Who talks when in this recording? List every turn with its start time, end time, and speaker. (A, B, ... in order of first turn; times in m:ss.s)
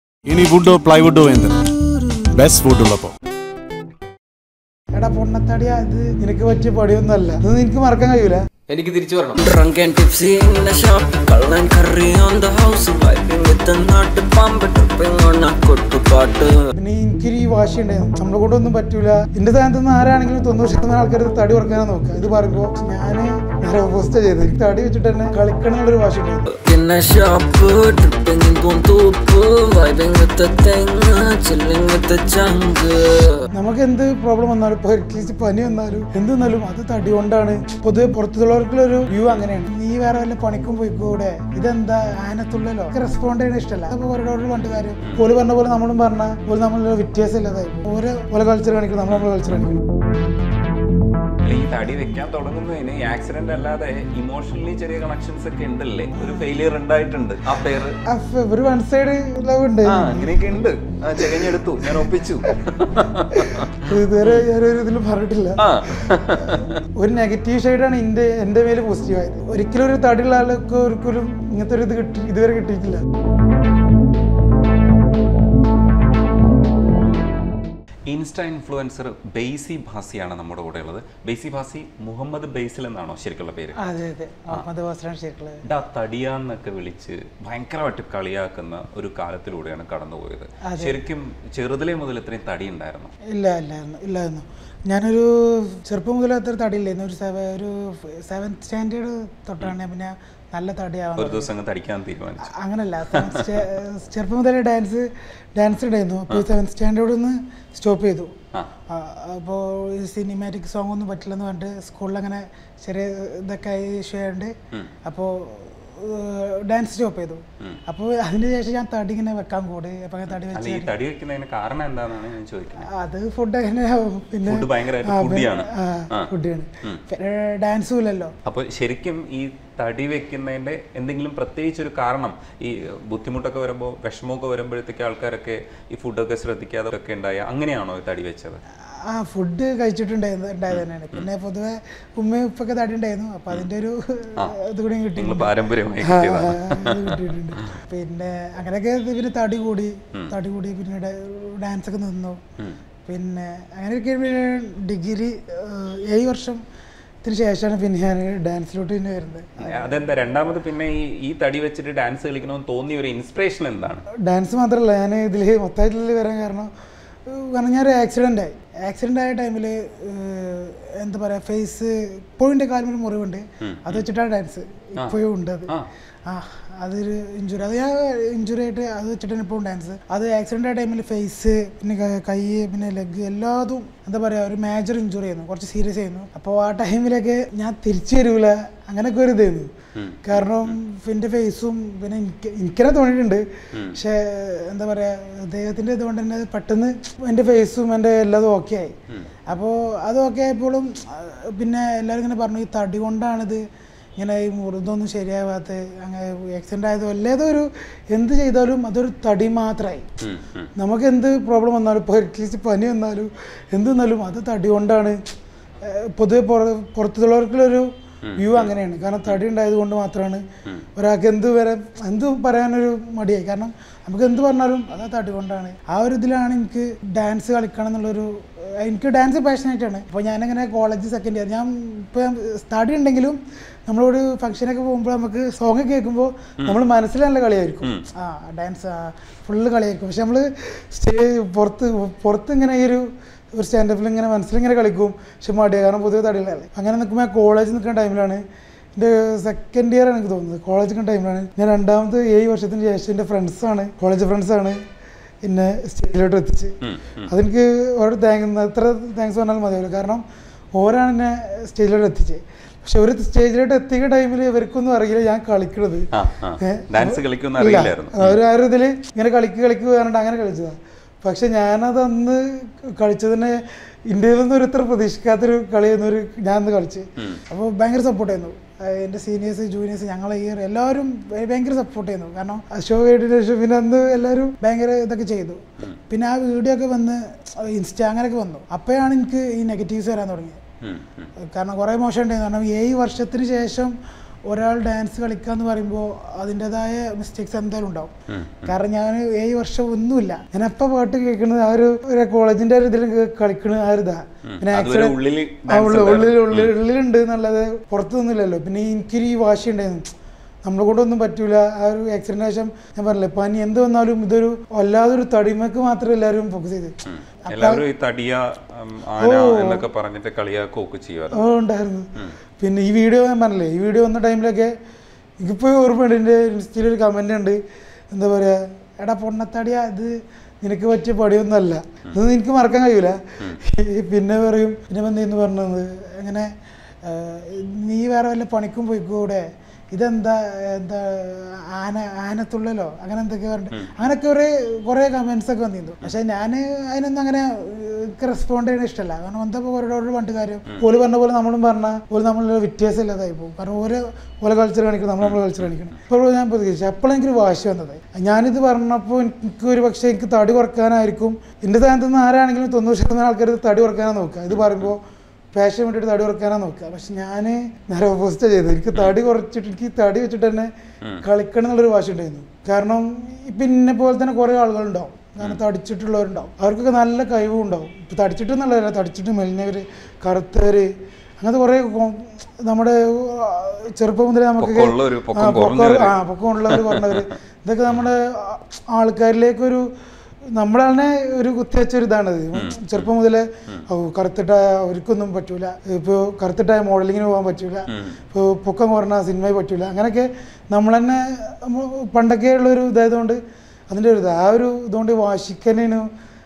0:00.3-0:03.1 A
0:04.9-0:08.4 B
0:08.7-0:16.6 C
0:16.8-0:26.4 B
0:26.6-0:33.4 C
0:33.5-0:49.8 B
0:51.4-0:58.0 D
0:58.0-1:00.3 B
0:59.8-1:04.4 D
1:01.2-1:13.0 B
1:05.6-1:06.8 D
1:18.1-1:23.8 D
1:23.8-1:25.6 B
1:25.7-1:33.1 D
1:30.6-1:31.0 B
1:33.3-1:41.5 B
1:41.2-1:42.5 D
1:42.4-1:48.4 B
1:43.1-1:43.6 D
1:48.9-2:00.9 B
2:00.5-2:02.9 D
2:02.8-2:08.4 B
2:04.4-2:06.3 D
2:08.4-2:18.6 D
2:19.0-2:32.4 B
2:20.7-2:21.3 D
2:25.2-2:27.7 D
2:33.1-2:36.6 B
2:37.2-2:40.1 B
2:39.6-2:44.0 D
2:44.2-2:46.7 B
2:47.2-2:55.7 B
2:53.6-2:54.0 D
2:56.3-3:09.7 B
3:09.9-3:10.7 D
3:10.2-3:19.0 B
3:19.5-3:23.6 B
3:24.2-3:30.1 B
3:30.2-3:30.7 D
3:30.8-3:35.2 B
3:35.8-3:40.4 B
3:38.2-3:38.7 D
3:41.0-4:08.4 B
4:08.9-4:14.8 B
4:15.4-4:16.8 B
4:16.8-4:17.2 D
4:17.3-4:20.2 B
4:20.8-4:26.1 B
4:26.1-4:28.4 D
4:26.6-4:50.6 B
4:50.8-4:51.3 D
4:51.4-4:54.0 B
4:54.5-4:58.1 B
4:58.3-4:58.7 D
4:58.7-5:10.1 B
5:04.5-5:06.7 D
5:10.6-5:17.0 B
5:17.0-5:21.4 D
5:17.5-5:17.8 B
5:19.2-5:19.8 B
5:21.3-5:22.1 B
5:22.6-5:24.7 B
5:25.4-5:27.6 B
5:28.1-5:36.5 B
5:37.0-6:05.0 B
5:55.2-5:56.0 D
6:04.5-6:04.9 D
6:05.5-6:10.7 B
6:11.2-6:29.8 B
6:24.6-6:26.2 D
6:26.7-6:27.2 D
6:30.5-6:43.4 B
6:32.5-6:33.1 D
6:37.9-6:38.2 D
6:43.9-6:46.1 B